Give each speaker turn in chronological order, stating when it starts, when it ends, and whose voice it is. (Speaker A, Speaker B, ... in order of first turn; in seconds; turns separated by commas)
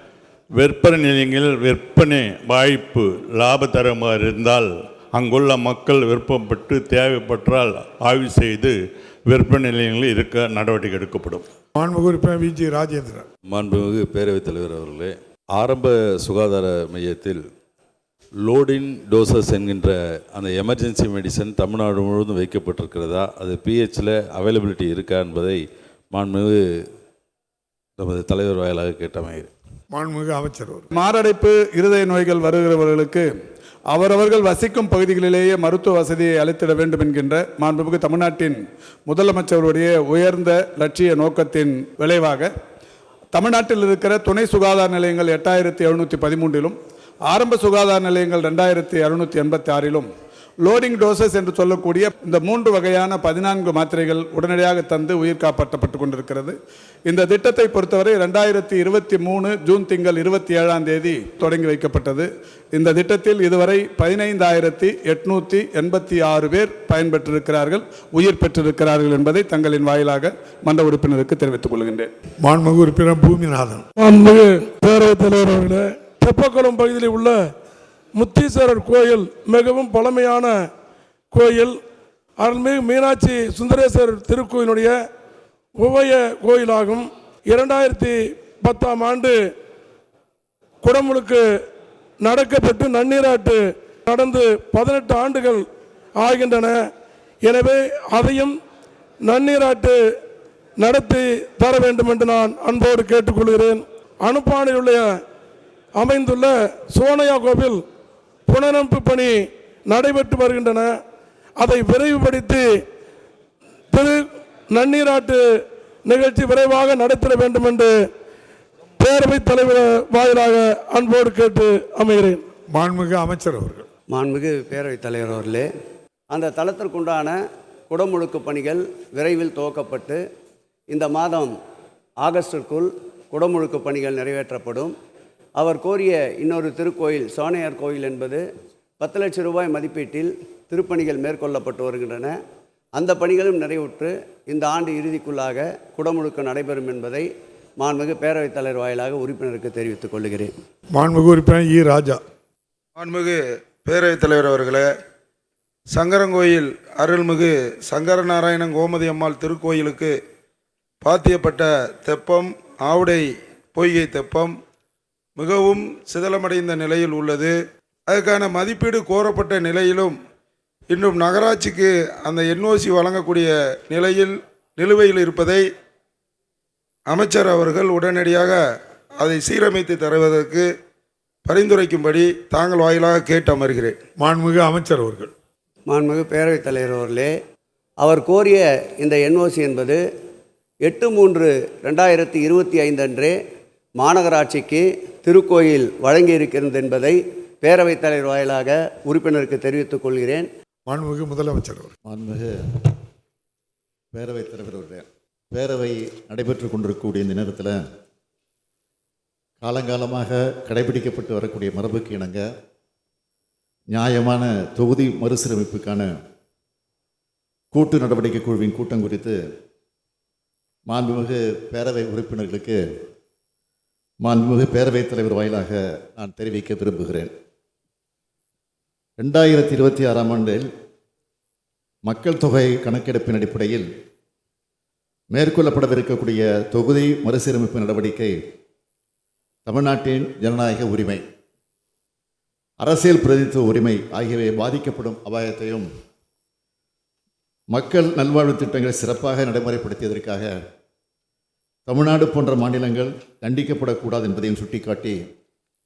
Speaker A: 0.6-11.5, Speaker B: 11.8-13.3, Speaker C: 13.5-17.5, Speaker C: 18.4-26.7, Speaker C: 28.0-29.5, Speaker B: 29.9-30.9, Speaker D: 30.9-33.3, Speaker D: 33.9-42.5, Speaker D: 43.3-46.8, Speaker D: 47.3-50.1, Speaker D: 50.6-72.1, Speaker B: 72.4-73.9, Speaker E: 74.0-77.4, Speaker E: 78.2-80.6, Speaker E: 81.3-81.8, Speaker E: 82.4-85.0, Speaker E: 85.8-89.4, Speaker E: 90.8-91.5, Speaker E: 92.2-96.9, Speaker E: 97.4-98.6, Speaker E: 99.2-100.0, Speaker E: 100.8-105.1, Speaker E: 106.0-107.8, Speaker E: 108.5-110.9, Speaker E: 111.6-112.8, Speaker E: 113.9-115.5, Speaker E: 116.1-118.0, Speaker E: 119.0-122.4, Speaker B: 122.7-123.9, Speaker F: 124.1-125.7, Speaker F: 126.3-127.4, Speaker F: 127.9-130.2, Speaker F: 130.9-131.5, Speaker F: 132.2-134.9, Speaker F: 135.6-138.4, Speaker F: 139.0-142.4, Speaker F: 143.0-150.5, Speaker B: 150.9-152.2, Speaker G: 153.0-154.8, Speaker G: 155.9-160.1, Speaker G: 161.0-163.2, Speaker G: 163.8-164.5, Speaker G: 165.4-167.5, Speaker G: 168.1-170.1, Speaker G: 170.9-175.6, Speaker G: 177.1-178.6, Speaker G: 179.2-180.6, Speaker G: 181.5-183.9, Speaker B: 184.2-185.3, Speaker F: 185.9-187.3, Speaker F: 188.0-190.0, Speaker F: 190.8-193.4, Speaker F: 194.0-200.5, Speaker B: 200.9-201.9, Speaker H: 202.1-202.5, Speaker H: 204.1-207.8, Speaker H: 209.6-212.4, Speaker H: 213.9-216.1, Speaker H: 217.7-219.4, Speaker H: 220.9-222.8, Speaker H: 224.2-227.3, Speaker H: 229.2-230.7, Speaker H: 232.1-233.9, Speaker H: 235.3-238.3, Speaker H: 239.7-241.2, Speaker H: 242.8-245.9, Speaker H: 247.7-250.5, Speaker H: 251.9-255.2